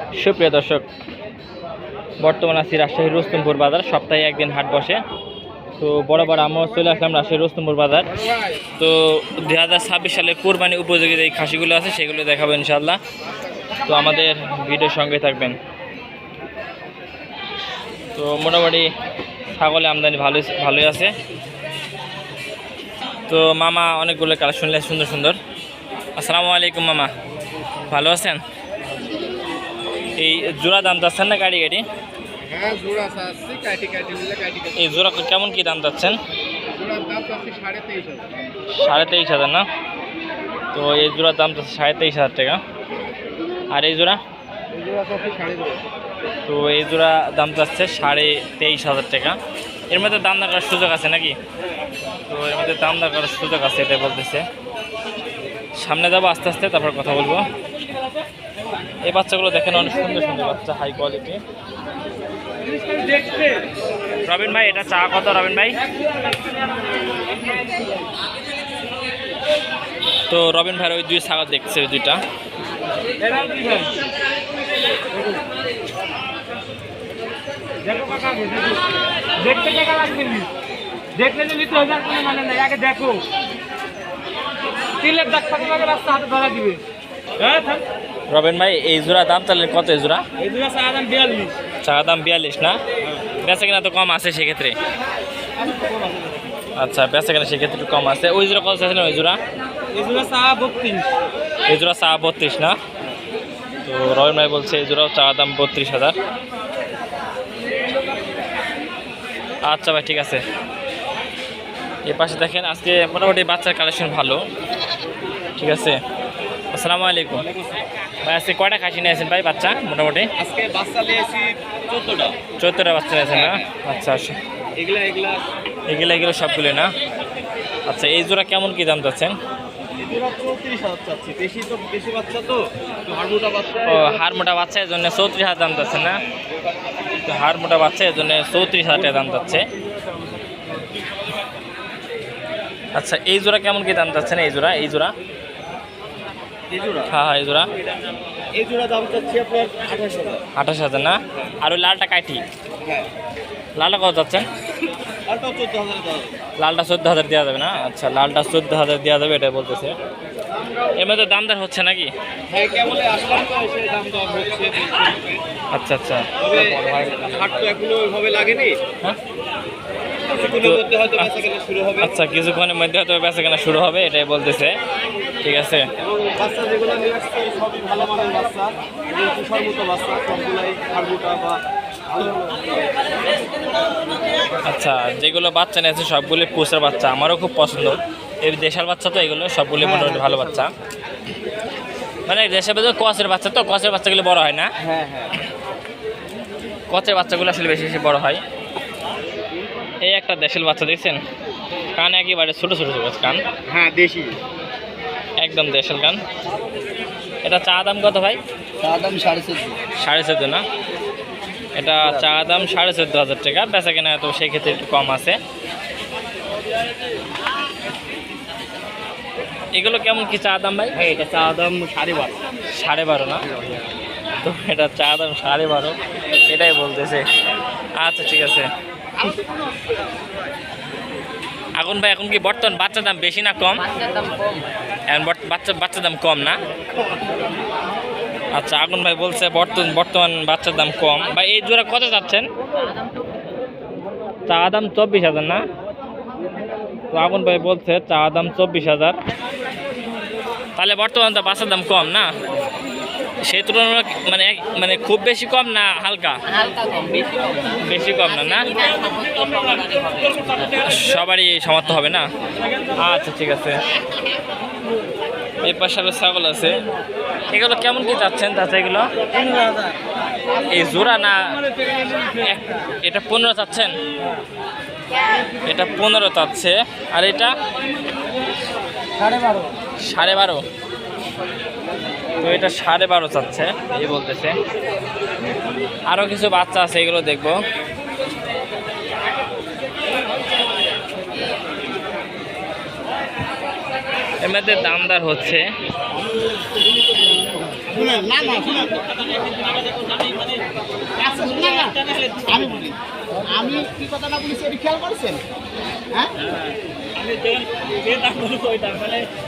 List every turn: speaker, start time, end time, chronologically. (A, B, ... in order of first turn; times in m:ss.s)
0:00.1-0:00.8 A
0:02.2-0:05.0 A
0:05.8-0:08.1 A
0:08.8-0:13.0 A
0:13.9-0:15.6 A
0:18.1-0:18.9 A
0:19.5-0:21.1 A
0:23.3-0:25.4 A
0:26.2-0:27.1 A
0:27.8-0:28.4 A
0:30.2-0:31.8 A
0:32.5-0:34.7 B
0:34.7-0:36.2 A
0:36.8-0:38.2 B
0:38.7-0:39.6 A
0:40.7-0:42.6 A
0:43.7-0:44.2 A
0:44.9-0:45.4 C
0:45.3-0:45.6 B
0:46.4-0:49.4 A
0:49.9-0:51.4 A
0:52.3-0:54.4 A
0:55.8-0:57.4 A
0:59.0-1:01.4 A
1:04.3-1:05.8 A
1:10.3-1:12.2 A
1:13.4-1:13.7 C
1:18.0-1:18.7 C
1:19.5-1:20.4 C
1:21.2-1:23.2 C
1:25.0-1:26.8 C
1:28.3-1:30.2 A
1:30.4-1:31.5 B
1:31.8-1:32.8 A
1:33.4-1:34.7 A
1:36.8-1:39.4 A
1:39.9-1:41.1 B
1:41.7-1:42.8 A
1:43.8-1:46.2 A
1:49.6-1:50.4 A
1:52.0-1:54.4 A
1:55.6-1:56.0 A
1:56.7-1:57.4 A
1:58.2-2:00.3 A
2:00.4-2:02.4 B
2:02.6-2:04.4 A
2:03.3-2:03.7 B
2:04.8-2:05.4 B
2:05.9-2:06.9 A
2:07.9-2:09.4 A
2:10.0-2:14.1 B
2:13.8-2:16.2 A
2:17.2-2:19.6 A
2:23.0-2:25.1 A
2:26.7-2:27.1 B
2:27.1-2:27.7 A
2:28.5-2:30.4 B
2:30.6-2:32.4 A
2:33.8-2:34.5 A
2:35.2-2:36.4 B
2:36.6-2:39.9 A
2:41.0-2:42.1 A
2:42.5-2:45.4 B
2:45.7-2:46.3 A
2:46.4-2:48.8 B
2:50.3-2:52.2 B
2:50.4-2:51.3 A
2:52.0-2:54.7 A
2:55.4-2:55.8 A
2:56.0-3:02.7 B
3:04.6-3:10.7 A
3:09.8-3:10.7 B
3:12.3-3:14.7 A
3:14.8-3:15.4 B
3:16.9-3:18.4 A
3:20.0-3:21.2 A
3:21.9-3:23.4 A
3:23.7-3:24.4 B
3:25.4-3:26.2 A
3:27.4-3:28.4 A
3:28.8-3:29.8 B
3:30.0-3:30.6 A
3:31.8-3:35.4 A
3:39.7-3:41.0 A
3:41.0-3:42.3 B
3:42.8-3:43.4 A
3:44.4-3:46.0 A
3:46.5-3:47.2 A
3:48.0-3:48.7 A
3:51.8-3:53.9 A
3:53.9-3:54.6 D
3:55.1-3:56.6 A
3:58.5-4:02.5 A
4:04.5-4:05.6 A
4:07.1-4:09.2 A
4:10.8-4:12.3 A
4:13.4-4:16.4 A
4:16.5-4:17.7 D
4:17.8-4:18.7 A
4:18.7-4:20.8 D
4:20.7-4:22.2 A
4:23.0-4:23.8 A
4:25.6-4:26.8 A
4:27.5-4:29.1 A
4:30.7-4:31.6 A
4:32.3-4:33.9 A
4:35.6-4:37.5 A
4:40.0-4:40.6 A
4:42.4-4:44.6 A
4:46.1-4:47.6 A
4:54.4-4:55.7 A
4:57.8-4:59.1 B
5:01.2-5:05.4 B
5:07.2-5:09.3 A